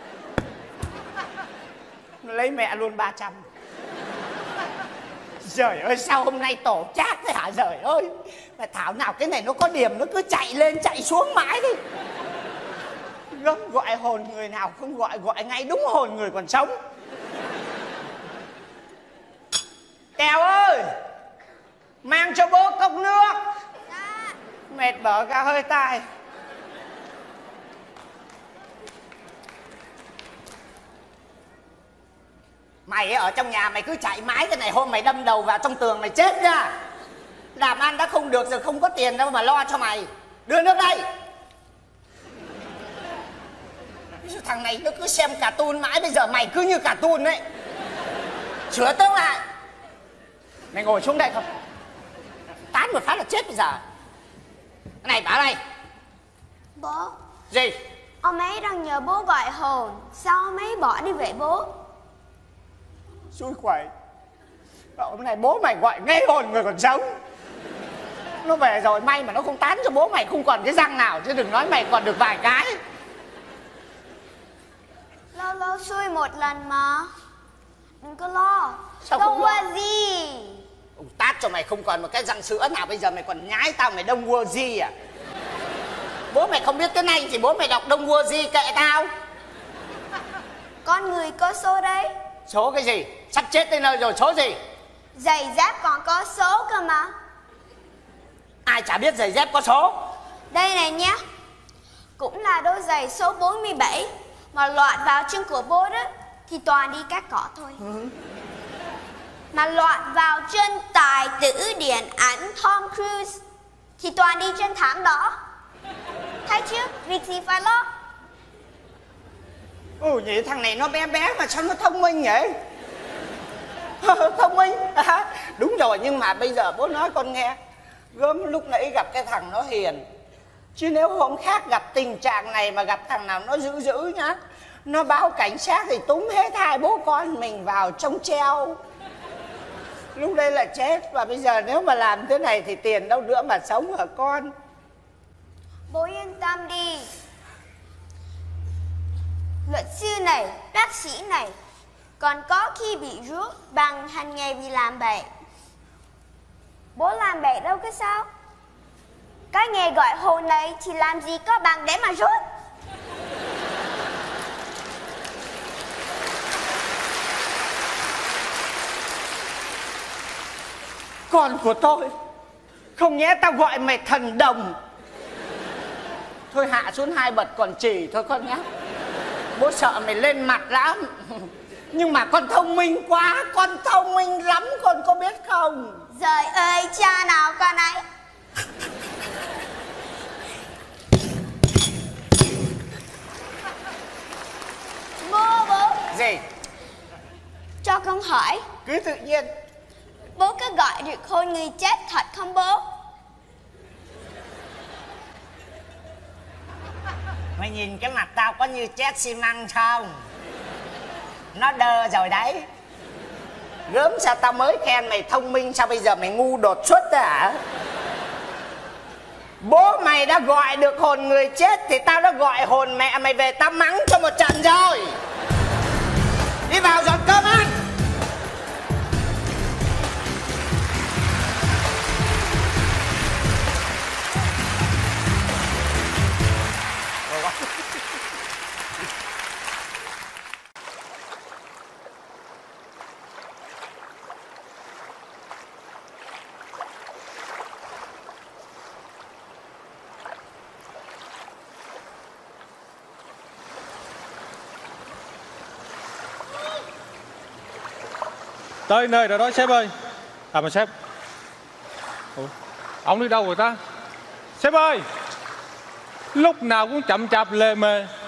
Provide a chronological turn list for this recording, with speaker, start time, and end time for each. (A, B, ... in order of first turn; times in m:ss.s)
0:02.2-0:03.4 A
0:05.4-0:11.8 A
0:13.3-0:16.7 A
0:20.2-0:20.9 A
0:22.0-0:23.4 A
0:23.9-0:24.3 B
0:24.7-0:26.0 A
0:32.9-0:36.7 A
0:37.6-0:41.0 A
0:44.2-0:47.4 A
0:48.7-0:49.4 A
0:50.7-0:51.5 A
0:52.7-0:53.8 A
0:55.0-0:55.6 A
0:56.8-0:57.2 B
0:57.5-0:57.8 A
0:58.2-1:01.7 B
1:03.3-1:03.9 A
1:05.0-1:07.0 A
1:08.4-1:12.8 A
1:15.4-1:17.1 B
1:18.0-1:20.6 B
1:19.0-1:19.6 A
1:21.0-1:24.9 A
1:26.3-1:29.1 A
1:30.8-1:32.1 B
1:32.5-1:34.6 A
1:35.2-1:37.1 B
1:38.7-1:40.0 A
1:40.5-1:41.2 B
1:42.2-1:47.8 B
1:49.5-1:53.4 B
1:54.0-1:55.4 B
1:56.5-1:57.9 B
2:00.0-2:02.6 A
2:04.0-2:07.6 A
2:08.1-2:10.0 A
2:10.8-2:18.8 A
2:20.2-2:24.5 A
2:25.9-2:27.1 B
2:29.7-2:31.6 B
2:32.2-2:35.3 B
2:37.0-2:38.3 B
2:39.5-2:42.4 B
2:51.3-2:52.1 A
2:53.0-2:54.8 A
2:56.5-2:58.6 A
2:59.6-3:06.0 A
3:06.1-3:08.0 B
3:15.2-3:16.0 B
3:16.1-3:16.4 A
3:17.8-3:18.7 B
3:18.9-3:19.5 A
3:20.4-3:22.8 B
3:27.6-3:30.1 A
3:31.6-3:32.6 A
3:33.9-3:37.6 A
3:39.6-3:45.2 A
3:46.7-3:47.8 A
4:18.9-4:19.9 C
4:20.5-4:20.9 C
4:23.0-4:23.8 C
4:24.6-4:25.0 C
4:26.3-4:28.1 C